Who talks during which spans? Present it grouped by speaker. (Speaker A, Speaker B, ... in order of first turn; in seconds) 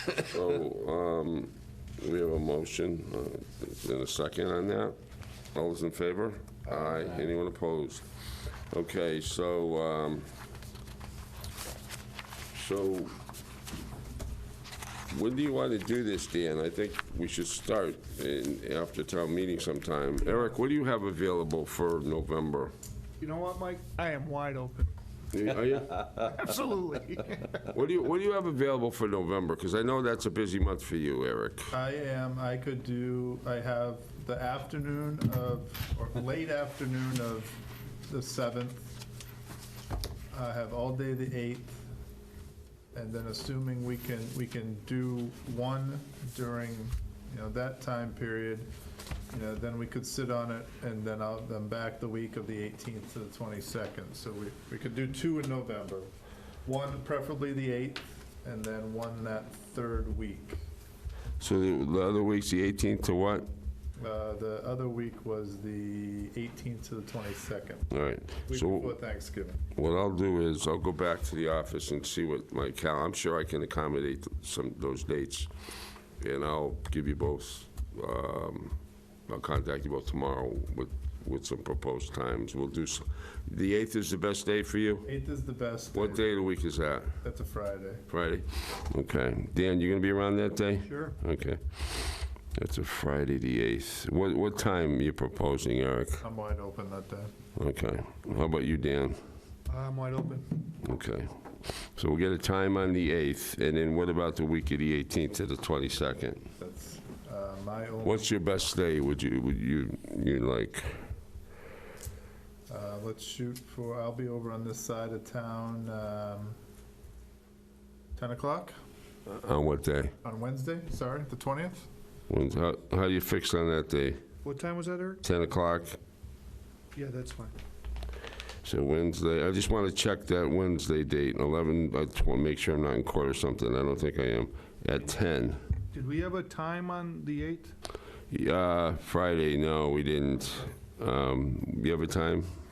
Speaker A: 0.2-5.0, 5.5-10.3, 12.5-13.2, 15.1-22.7, 25.3-26.4, 27.7-31.7, 61.4-63.5, 67.9-68.9, 69.7-75.5, 76.2-78.7, 79.3-85.1, 85.9-87.2, 88.1-96.2, 97.5-99.2, 100.8-106.4, 108.0-111.0, 119.3-120.1, 122.3-124.2, 125.2-126.0, 128.6-135.6, 138.3-142.5
Speaker B: 23.2-24.9, 26.1-27.6, 90.8-91.2, 99.7-100.6, 124.4-125.2, 126.9-127.5, 135.9-137.7
Speaker C: 31.7-39.0, 40.3-41.8, 42.9-48.7, 49.3-56.1, 56.6-60.6, 64.0-67.9, 68.5-69.6, 85.0-86.3, 87.2-88.0, 96.2-97.3, 106.6-108.3, 112.7-116.5, 118.2-118.8, 120.2-121.9